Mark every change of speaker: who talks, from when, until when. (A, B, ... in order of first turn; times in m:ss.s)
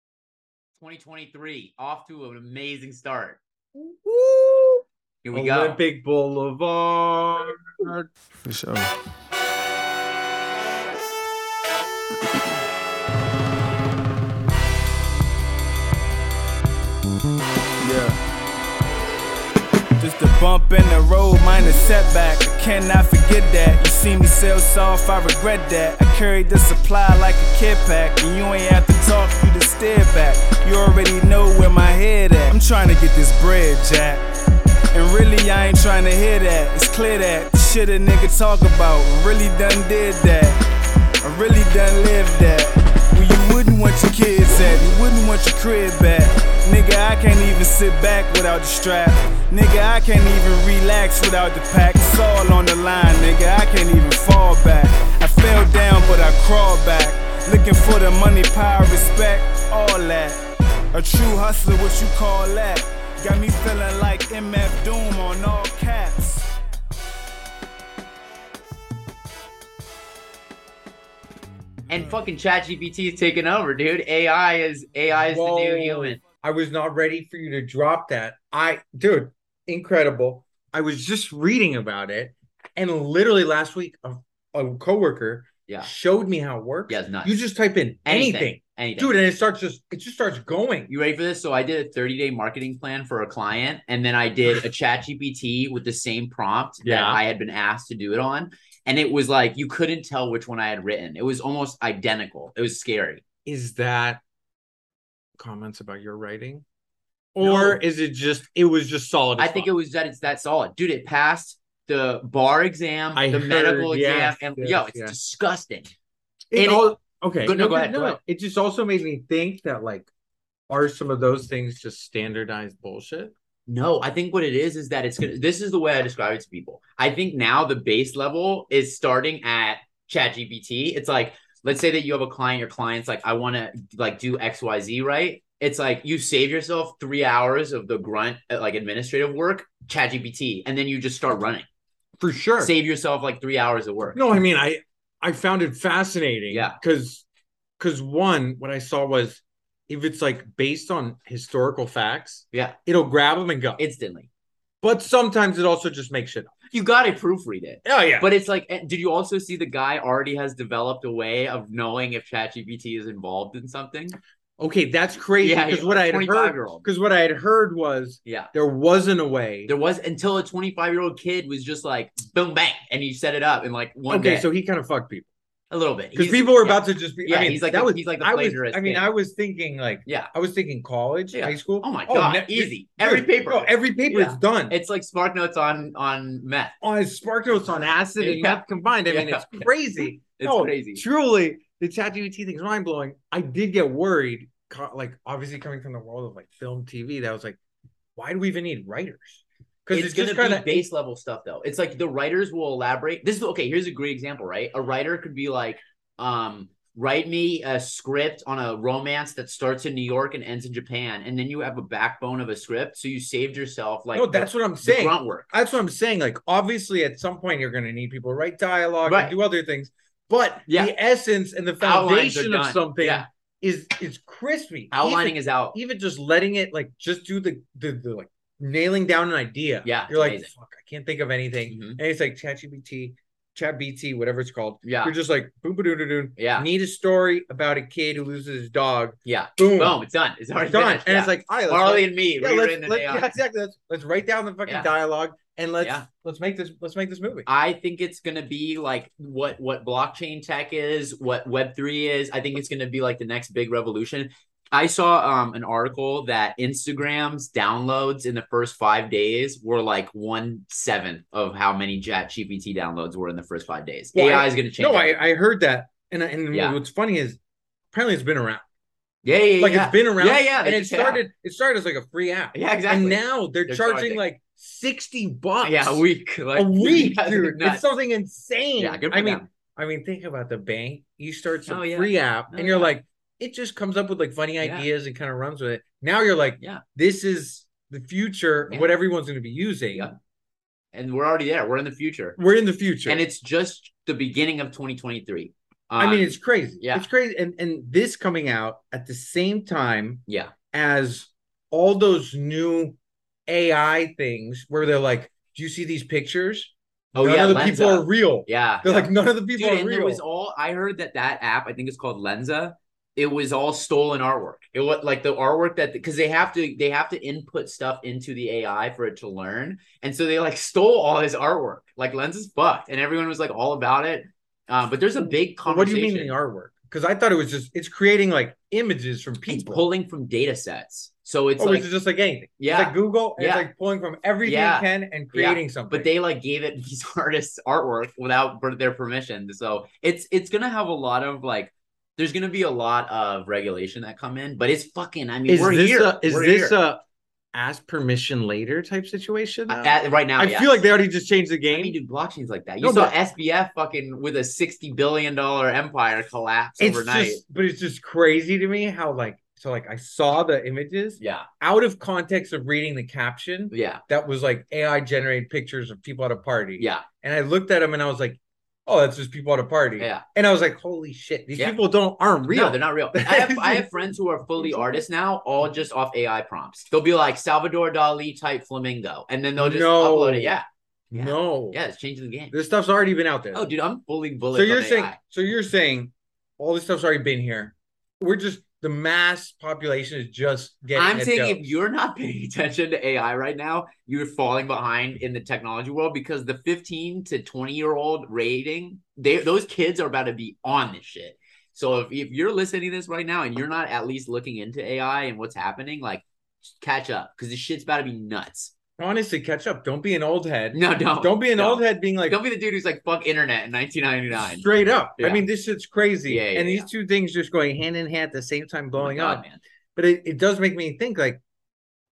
0:00.8-0:03.4 A
0:03.8-0:04.8 B
0:05.2-0:05.8 A
0:05.3-0:07.9 B
0:07.8-0:08.9 C
0:17.8-0:18.2 C
0:20.0-0:34.3 C
0:34.9-0:40.6 C
0:41.2-1:00.4 C
1:00.9-1:06.5 C
1:11.9-1:16.2 A
1:15.1-1:30.9 B
1:26.9-1:27.4 A
1:28.0-1:29.1 A
1:30.9-1:43.2 A
1:36.8-1:37.2 B
1:43.4-1:44.2 B
1:45.4-1:46.6 B
1:47.3-1:49.7 B
1:47.4-1:47.8 A
1:49.4-1:55.9 A
1:53.1-1:55.1 B
1:56.5-2:00.1 B
1:56.6-1:56.9 A
1:57.4-1:58.2 A
2:00.7-2:03.3 B
2:03.7-2:21.7 A
2:22.2-2:22.7 B
2:22.6-2:24.2 A
2:24.2-2:27.2 B
2:26.5-2:26.8 A
2:27.8-2:33.8 B
2:32.5-2:32.8 A
2:33.8-2:34.3 A
2:34.8-2:36.5 B
2:36.7-2:44.2 A
2:37.8-2:38.3 B
2:44.6-2:49.7 B
2:45.4-2:46.8 A
2:48.2-2:48.5 A
2:49.7-2:54.5 A
2:54.1-2:55.3 B
2:55.7-2:59.1 A
2:56.2-3:04.8 B
3:00.1-3:00.3 A
3:01.3-3:06.8 A
3:06.8-3:17.6 B
3:08.2-3:09.7 A
3:10.4-3:11.0 A
3:18.2-3:20.9 B
3:19.9-3:35.5 A
3:34.1-4:00.0 B
3:39.1-3:39.3 A
3:40.7-3:40.9 A
3:41.8-3:43.3 A
3:44.9-3:45.8 A
3:49.8-3:50.5 A
3:51.7-3:52.0 A
3:54.8-3:55.2 A
3:56.4-3:56.7 A
3:59.2-4:03.3 A
4:00.6-4:07.5 B
4:05.8-4:06.1 A
4:07.5-4:25.2 A
4:24.1-4:27.4 B
4:26.5-4:26.8 A
4:27.9-4:28.6 B
4:29.2-4:31.2 A
4:29.6-4:50.1 B
4:32.5-4:34.2 A
4:35.6-4:37.8 A
4:38.8-4:39.5 A
4:41.7-4:42.9 A
4:44.6-4:44.9 A
4:50.9-4:52.4 A
4:52.4-4:53.2 B
4:53.0-4:57.1 A
4:56.0-5:10.2 B
5:00.3-5:00.5 A
5:07.1-5:26.4 A
5:25.6-5:29.8 B
5:29.5-5:31.9 A
5:31.6-5:36.1 B
5:32.6-5:33.7 A
5:34.4-5:46.8 A
5:45.5-5:52.0 B
5:49.7-5:50.8 A
5:51.7-5:57.4 A
5:52.8-5:53.1 B
5:56.8-6:14.0 B
6:01.2-6:01.5 A
6:03.7-6:04.0 A
6:06.8-6:07.0 A
6:10.0-6:10.2 A
6:12.5-6:22.5 A
6:14.7-6:15.0 B
6:19.6-6:20.5 B
6:21.1-6:21.8 B
6:22.5-6:23.6 B
6:23.5-6:25.2 A
6:24.5-6:31.6 B
6:30.9-6:46.2 A
6:46.8-6:48.7 A
6:49.0-6:52.4 B
6:50.7-6:55.4 A
6:54.3-6:59.4 B
6:56.3-6:56.9 A
6:59.0-6:59.6 A
7:00.0-7:01.4 B